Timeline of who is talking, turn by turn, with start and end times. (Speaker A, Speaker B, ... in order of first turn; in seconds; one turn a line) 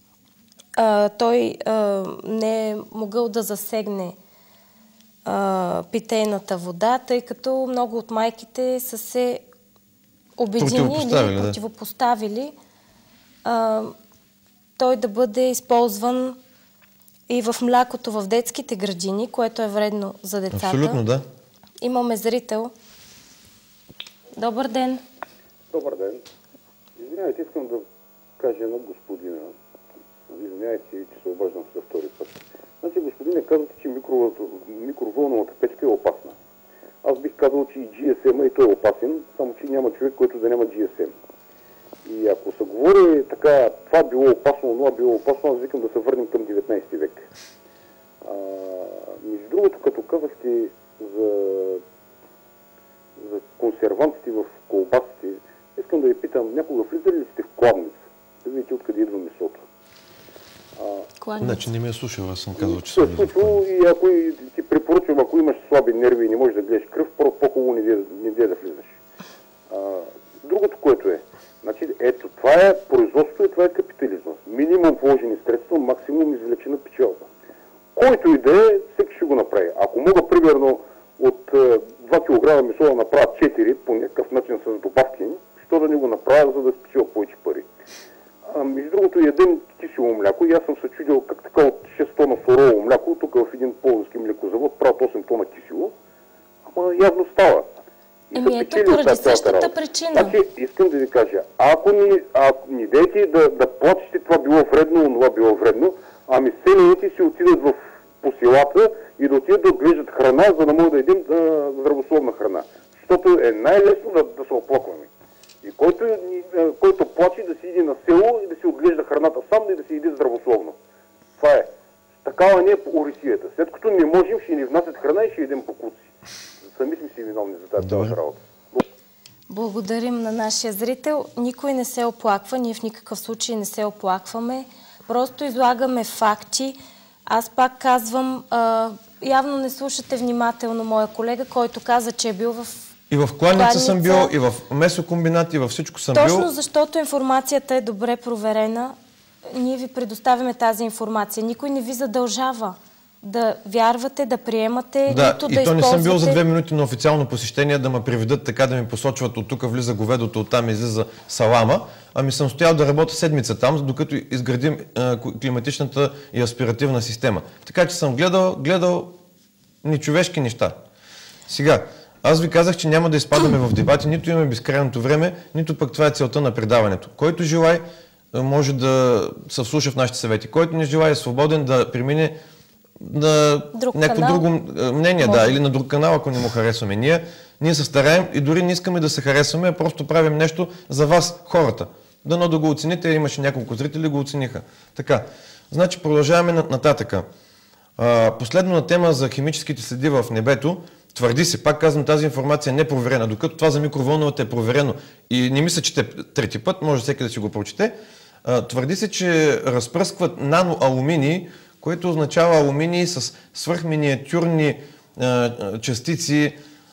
Speaker A: 0.8-4.2
Speaker A: 5.2-9.4
Speaker A: 10.4-12.5
Speaker B: 10.6-11.6
Speaker A: 13.4-13.9
Speaker A: 14.8-16.4
Speaker A: 17.3-21.0
Speaker B: 20.5-21.2
Speaker A: 21.8-22.7
Speaker A: 24.4-25.0
Speaker C: 25.7-26.2
Speaker C: 27.0-27.8
Speaker C: 28.4-29.5
Speaker C: 30.3-36.3
Speaker C: 37.0-41.1
Speaker C: 42.0-47.2
Speaker C: 48.2-51.8
Speaker C: 53.2-59.6
Speaker C: 60.8-61.1
Speaker A: 61.2-61.6
Speaker B: 61.4-63.6
Speaker C: 62.6-68.9
Speaker C: 69.7-77.3
Speaker C: 77.9-87.7
Speaker C: 88.5-95.9
Speaker C: 96.7-97.7
Speaker C: 98.3-115.1
Speaker A: 98.3-100.4
Speaker C: 115.6-120.8
Speaker C: 121.4-121.7
Speaker C: 122.2-126.0
Speaker C: 126.7-128.8
Speaker B: 127.8-128.2
Speaker A: 129.5-142.9
Speaker B: 143.1-146.5
Speaker A: 143.5-144.3
Speaker A: 146.1-148.9
Speaker A: 149.5-156.4
Speaker B: 155.1-169.1
Speaker B: 169.8-170.8
Speaker B: 171.5-182.3
Speaker B: 183.0-197.3
Speaker A: 183.7-184.4
Speaker A: 185.2-185.6
Speaker B: 198.0-207.9
Speaker B: 208.4-216.6